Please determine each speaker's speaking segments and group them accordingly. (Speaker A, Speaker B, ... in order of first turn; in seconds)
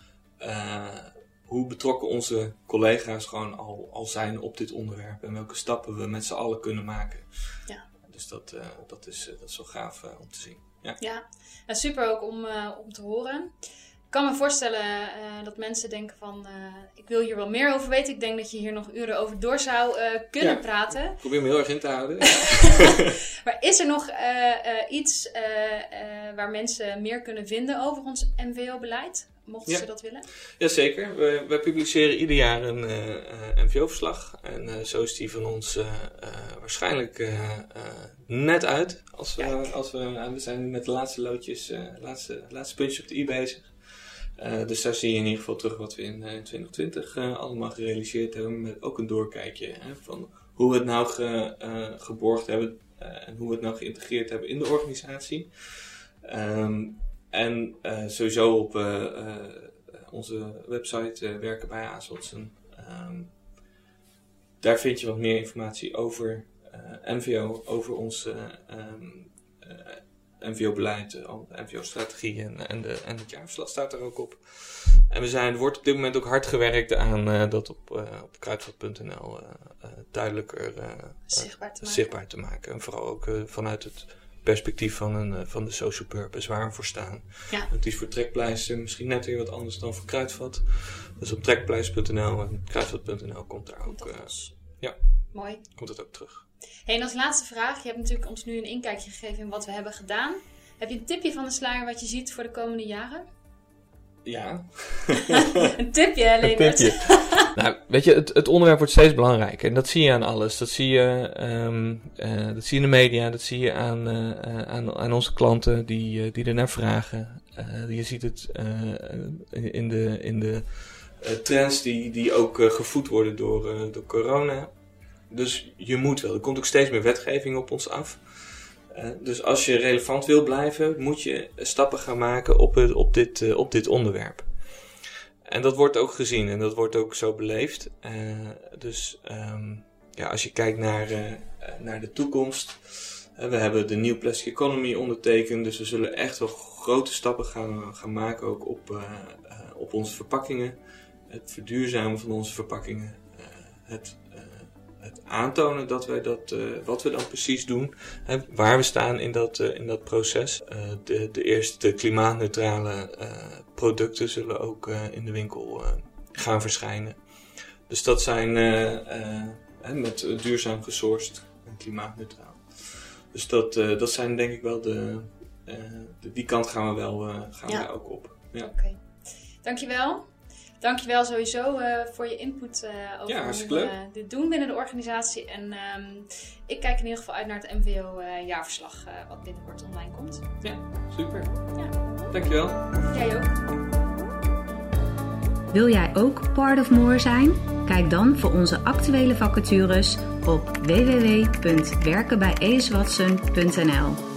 Speaker A: 0.4-11.0, 20.4-23.0, 29.7-63.4, 64.6-95.0, 95.5-96.5, 104.2-105.7, 106.4-124.7, 125.3-178.7, 183.3-184.0, 190.6-191.8, 192.3-192.9
Speaker B: 11.0-13.6, 14.1-21.5, 22.3-30.3, 39.4-39.7, 81.3-82.1, 93.8-94.6, 95.3-95.7, 96.9-103.3, 105.6-107.5, 178.6-190.5, 193.1-193.6
Speaker C: 195.7-204.2